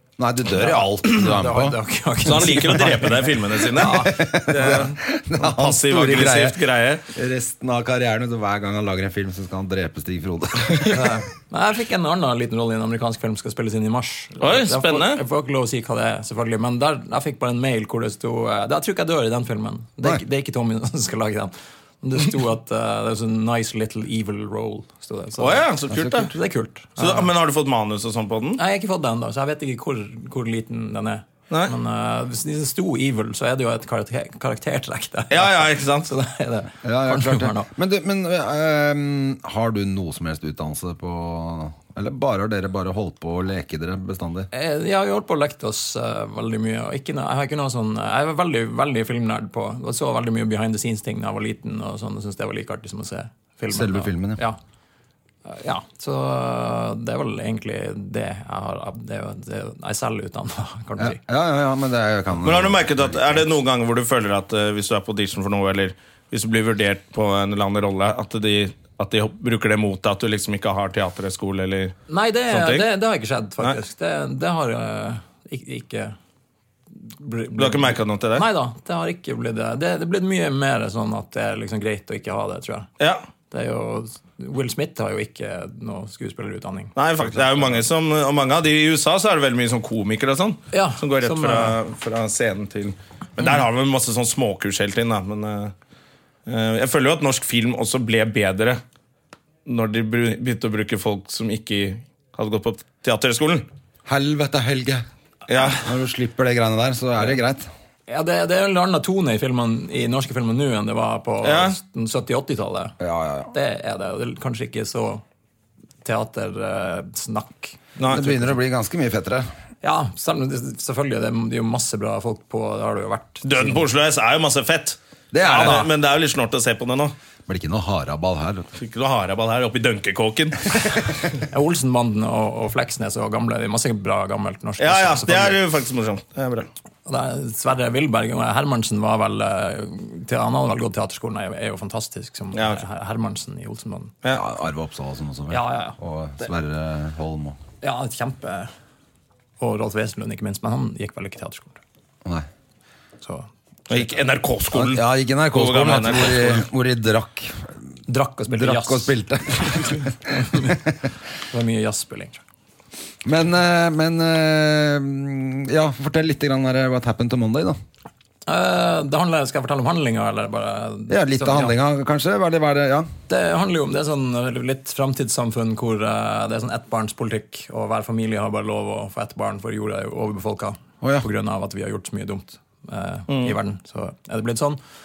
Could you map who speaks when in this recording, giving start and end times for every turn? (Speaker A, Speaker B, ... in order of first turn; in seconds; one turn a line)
Speaker A: 0.2-1.8
Speaker B: 0.5-4.9
Speaker C: 2.2-7.0
Speaker A: 3.8-6.6
Speaker A: 7.1-11.2
Speaker B: 10.8-25.7
Speaker C: 14.4-15.2
Speaker C: 25.4-26.3
Speaker A: 25.9-26.3
Speaker B: 26.2-27.3
Speaker C: 27.0-28.6
Speaker B: 28.6-37.7
Speaker C: 35.3-36.1
Speaker A: 36.8-44.5
Speaker B: 44.5-54.6
Speaker A: 53.7-54.4
Speaker B: 55.5-61.2
Speaker A: 61.0-63.5
Speaker C: 62.4-72.0
Speaker B: 72.1-76.2
Speaker C: 72.5-72.9
Speaker B: 77.0-82.9
Speaker C: 77.6-78.5
Speaker C: 83.0-83.2
Speaker B: 83.5-87.8
Speaker C: 87.0-95.7
Speaker B: 90.7-91.8
Speaker C: 96.5-98.8
Speaker C: 99.7-103.7
Speaker A: 104.1-105.0
Speaker C: 105.5-105.8
Speaker A: 105.8-107.7
Speaker B: 108.1-112.9
Speaker C: 111.4-111.8
Speaker A: 113.0-113.5
Speaker B: 113.5-115.2
Speaker B: 116.0-118.4
Speaker C: 118.0-118.3
Speaker A: 118.1-119.5
Speaker B: 119.8-123.8
Speaker C: 123.4-127.1
Speaker A: 125.3-125.9
Speaker A: 127.5-128.7
Speaker C: 128.8-130.8
Speaker B: 131.5-135.6
Speaker C: 134.8-136.7
Speaker B: 137.1-144.1
Speaker C: 142.5-142.8
Speaker A: 144.3-147.6
Speaker B: 145.5-146.0
Speaker B: 147.8-148.7
Speaker B: 149.6-151.8
Speaker B: 153.2-154.1
Speaker C: 153.9-156.6
Speaker A: 154.7-157.7
Speaker B: 158.1-159.2
Speaker A: 158.5-160.9
Speaker B: 160.3-160.8
Speaker B: 161.5-162.4
Speaker A: 163.2-167.8
Speaker B: 168.4-171.8
Speaker A: 171.1-173.1
Speaker B: 173.3-184.8
Speaker C: 183.3-183.6